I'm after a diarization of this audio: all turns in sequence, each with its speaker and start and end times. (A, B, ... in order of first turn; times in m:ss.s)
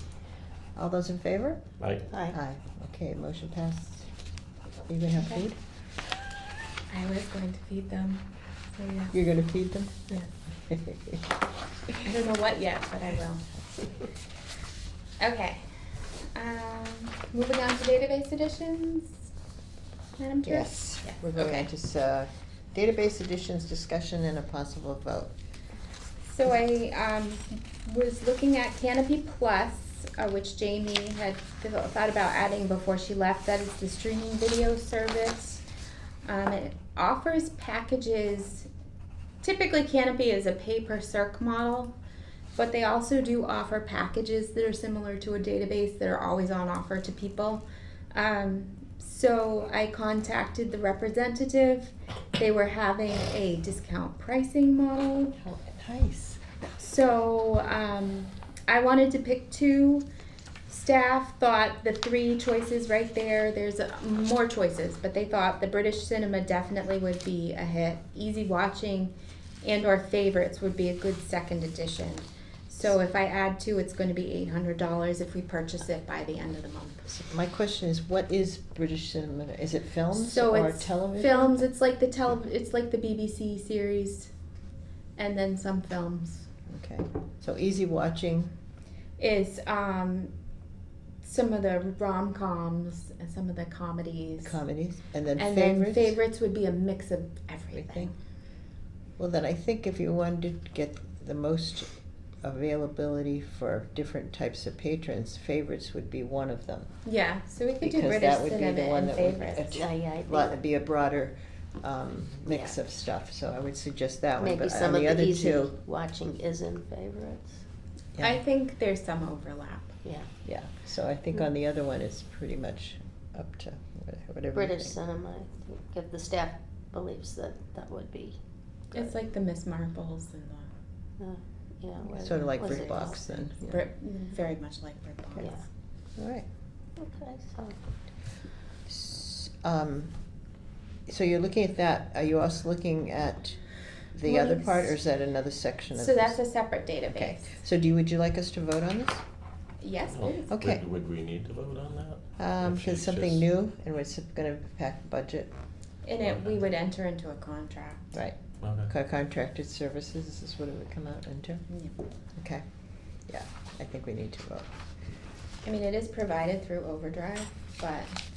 0:00.7-0:04.1 A
0:01.8-0:02.0 B
0:02.1-0:02.4 C
0:04.9-0:05.6 A
0:05.1-0:05.5 D
0:06.9-0:09.1 D
0:09.1-0:11.3 A
0:12.0-0:13.4 D
0:15.2-0:15.6 D
0:16.3-0:19.2 D
0:20.2-0:21.7 D
0:20.4-0:25.3 A
0:26.2-0:35.6 D
0:36.2-0:38.7 D
0:39.4-0:41.9 D
0:42.6-0:55.4 D
0:55.4-0:56.4 A
0:56.8-1:00.1 D
1:00.7-1:17.0 D
1:17.0-1:21.6 A
1:20.1-1:24.3 D
1:25.2-1:26.5 D
1:26.6-1:28.5 A
1:29.2-1:30.3 D
1:31.2-1:34.6 D
1:34.4-1:36.2 A
1:35.3-1:38.1 D
1:37.7-1:38.1 A
1:39.2-1:46.9 A
1:47.0-1:49.7 D
1:47.8-1:55.7 A
1:49.7-1:50.6 C
1:52.5-1:52.8 C
1:54.4-1:57.6 C
1:58.2-2:00.0 D
2:00.0-2:00.3 C
2:00.4-2:05.0 A
2:04.5-2:08.4 C
2:08.9-2:10.7 D
2:11.2-2:13.5 C
2:12.2-2:13.9 A
2:13.7-2:15.6 D
2:15.4-2:15.6 C
2:16.2-2:16.5 A
2:17.0-2:17.8 C
2:18.8-2:20.2 A
2:21.1-2:23.6 A
2:24.1-2:26.4 A
2:24.2-2:25.0 D
2:25.9-2:27.5 D
2:27.1-2:29.2 A
2:29.8-2:30.5 D
2:30.0-2:33.4 B
2:30.5-2:30.8 A
2:32.4-2:35.5 A
2:36.0-2:38.1 D
2:38.1-2:41.6 A
2:38.6-2:38.9 B
2:42.4-2:42.6 A
2:43.3-2:44.7 A
2:45.6-2:48.1 D